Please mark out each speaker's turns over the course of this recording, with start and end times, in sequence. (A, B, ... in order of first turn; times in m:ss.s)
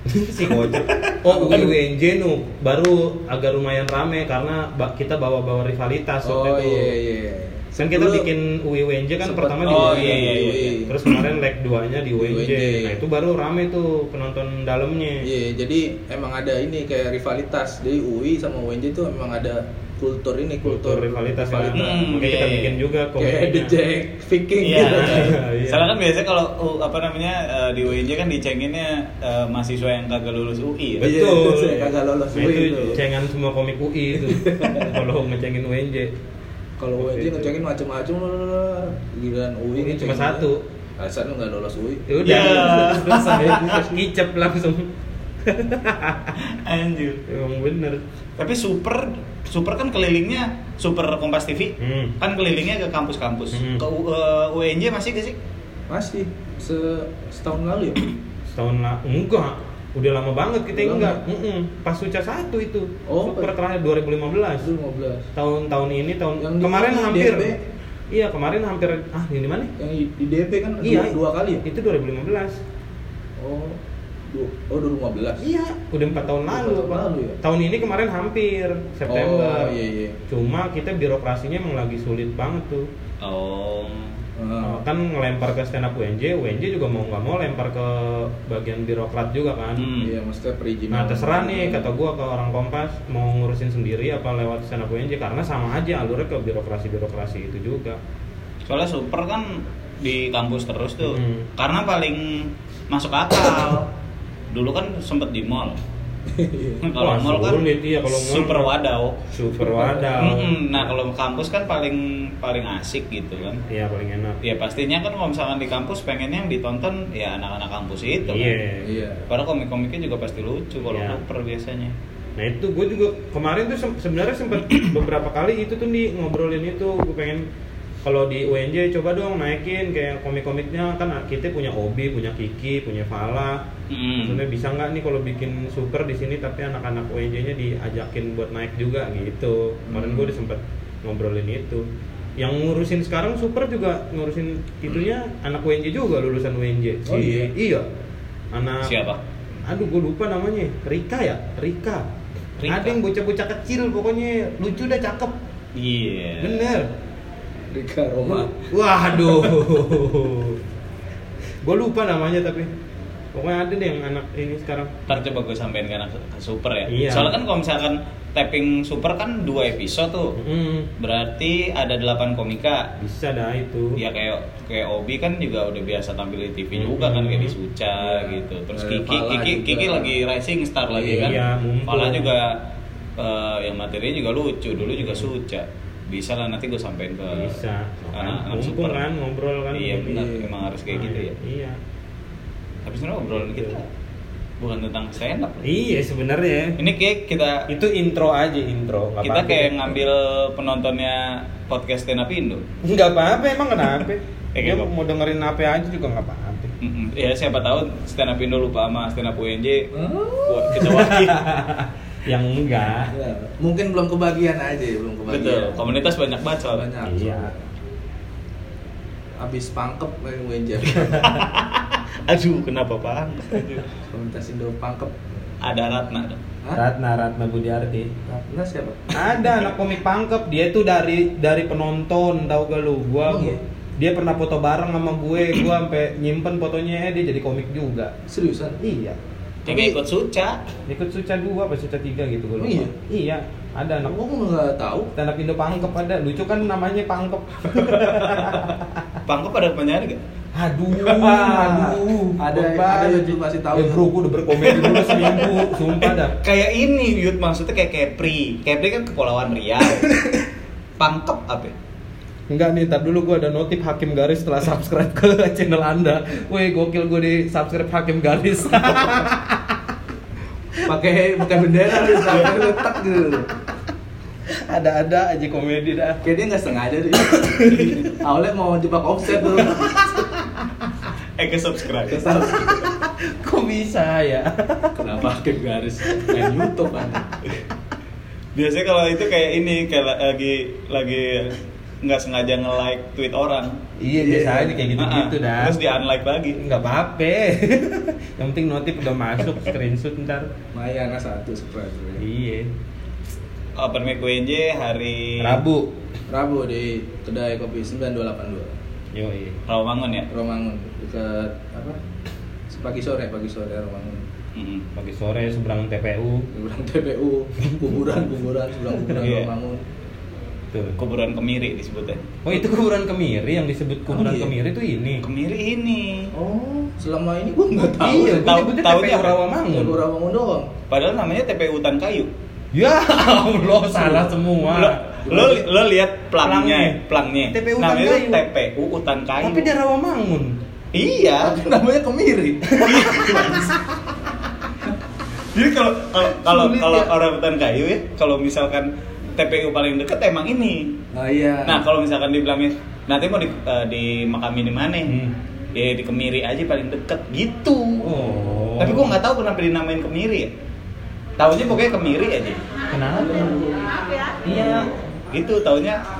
0:00.1-0:06.9 A
0:00.5-0:01.6 B
0:01.3-0:01.7 C
0:06.2-0:08.3 C
0:07.8-0:15.2 A
0:09.2-0:10.9 C
0:09.6-0:11.2 B
0:12.2-0:13.0 C
0:15.2-0:21.8 C
0:20.6-0:23.7 A
0:21.7-0:22.8 B
0:23.2-0:25.4 C
0:24.6-0:31.1 B
0:24.8-0:25.9 A
0:31.0-0:36.1 A
0:31.0-0:33.0 C
0:34.1-0:35.0 C
0:36.8-0:44.0 C
0:37.0-0:37.5 A
0:39.8-0:40.6 A
0:42.1-0:44.9 A
0:42.2-0:43.7 B
0:45.4-0:46.3 A
0:46.4-0:47.2 B
0:47.3-0:48.0 A
0:48.4-0:55.4 B
0:51.8-0:52.1 A
0:53.5-0:53.8 A
0:55.9-0:58.1 C
0:58.5-1:04.7 A
1:00.7-1:01.2 C
1:03.0-1:03.5 C
1:04.6-1:05.3 C
1:05.4-1:07.5 A
1:06.4-1:07.6 C
1:08.1-1:09.7 A
1:09.8-1:11.6 C
1:10.8-1:12.6 A
1:13.4-1:15.4 C
1:15.4-1:19.7 A
1:16.1-1:17.4 C
1:19.0-1:20.2 C
1:20.3-1:22.9 A
1:23.2-1:24.2 B
1:24.4-1:24.8 C
1:24.6-1:29.8 A
1:29.8-1:30.1 B
1:30.0-1:31.9 C
1:30.9-1:38.0 A
1:38.6-1:43.9 B
1:41.0-1:41.5 A
1:44.5-1:45.8 B
1:46.3-1:46.9 C
1:46.8-1:49.2 B
1:46.9-1:48.7 A
1:49.2-1:50.9 A
1:49.5-1:50.1 C
1:50.2-1:53.6 B
1:53.7-1:54.4 A
1:54.4-1:58.6 B
1:58.2-1:58.9 A
1:58.8-1:59.2 C
1:59.3-2:01.9 B
2:00.9-2:01.2 A
2:02.4-2:07.4 A
2:08.0-2:13.6 A
2:13.9-2:14.4 B
2:14.2-2:21.8 A
2:19.9-2:20.3 B
2:22.4-2:27.8 A
2:27.0-2:27.5 C
2:28.5-2:29.1 A
2:28.8-2:29.2 B
2:29.6-2:32.0 A
2:32.6-2:33.0 B
2:32.7-2:35.3 A
2:35.7-2:36.7 B
2:36.4-2:36.9 A
2:37.7-2:38.6 C
2:38.7-2:40.6 A
2:41.6-2:42.7 A
2:43.3-2:44.9 A
2:45.1-2:50.4 B
2:46.9-2:47.4 A
2:50.4-2:50.9 A
2:51.0-2:52.9 B
2:53.0-2:54.0 A
2:54.0-3:02.6 B
2:56.8-2:57.5 A
2:58.0-3:00.1 C
3:00.9-3:01.4 C
3:01.1-3:02.3 A
3:03.2-3:07.6 B
3:07.3-3:10.3 A
3:08.1-3:09.1 B
3:09.7-3:11.3 B
3:10.1-3:10.5 C
3:10.9-3:11.8 A
3:12.8-3:13.8 B
3:13.4-3:13.7 A
3:14.6-3:15.8 B
3:15.6-3:16.8 A
3:16.8-3:17.7 B
3:17.7-3:19.9 A
3:19.2-3:22.6 B
3:22.8-3:26.7 A
3:24.5-3:24.9 B
3:26.8-3:29.9 B
3:29.9-3:30.8 C
3:30.4-3:31.4 B
3:30.7-3:33.1 A
3:33.0-3:35.8 C
3:35.3-3:36.9 B
3:36.7-3:37.6 C
3:37.0-3:37.5 A
3:39.4-3:41.4 C
3:41.0-3:43.9 B
3:44.0-3:45.3 C
3:45.6-3:46.4 B
3:46.7-3:48.1 A
3:48.2-3:49.5 C
3:49.1-3:58.1 A
3:53.2-3:53.6 C
3:58.3-3:58.8 C
3:58.8-3:59.2 A
3:59.6-4:00.6 B
3:59.7-4:00.0 C
4:00.9-4:04.2 A
4:02.6-4:02.9 C
4:04.0-4:05.1 C
4:05.1-4:08.9 A
4:07.8-4:08.7 C
4:09.2-4:10.2 B
4:10.5-4:16.4 A
4:10.9-4:15.2 C
4:14.6-4:20.1 B
4:20.0-4:20.4 A
4:21.0-4:21.7 B
4:22.5-4:29.8 A
4:30.8-4:33.5 C
4:32.0-4:32.7 A
4:34.5-4:36.2 A
4:36.2-4:39.9 C
4:37.3-4:38.2 A
4:39.4-4:40.3 A
4:41.4-4:42.7 B
4:42.1-4:42.9 C
4:42.6-4:45.0 A
4:44.9-4:47.4 C
4:46.1-4:46.7 A
4:48.5-4:53.8 B
4:54.0-4:55.8 A
4:54.2-4:54.9 C
4:55.0-4:56.6 B
4:56.6-5:00.5 A
5:00.7-5:02.2 C
5:02.2-5:02.7 A
5:03.8-5:05.6 B
5:05.4-5:05.9 A
5:06.3-5:08.7 C
5:09.1-5:09.6 A
5:09.6-5:10.3 B
5:10.3-5:12.0 C
5:12.7-5:14.2 C
5:14.5-5:14.9 B
5:15.0-5:16.5 A
5:16.5-5:19.8 C
5:19.2-5:19.5 B
5:20.7-5:21.0 A
5:21.0-5:22.3 B
5:22.4-5:25.2 A
5:24.1-5:24.5 C
5:25.2-5:26.3 B
5:26.3-5:28.5 C
5:27.9-5:30.0 A
5:28.2-5:29.4 B
5:29.7-5:30.7 C
5:30.9-5:32.3 B
5:32.7-5:35.0 A
5:34.6-5:39.7 B
5:35.2-5:35.6 C
5:36.4-5:38.4 A
5:39.4-5:40.6 A
5:40.9-5:41.6 B
5:41.4-5:43.8 C
5:42.8-5:43.7 B
5:45.5-5:51.0 B
5:46.4-5:47.1 A
5:51.1-5:51.8 C
5:51.6-5:55.2 B
5:55.1-5:55.3 A
5:55.7-5:58.2 B
5:58.0-5:59.1 A
5:58.1-5:59.0 C
5:58.8-6:00.5 B
6:01.4-6:02.6 B
6:02.9-6:03.6 A
6:03.1-6:05.0 C
6:04.4-6:04.9 A
6:05.3-6:06.0 B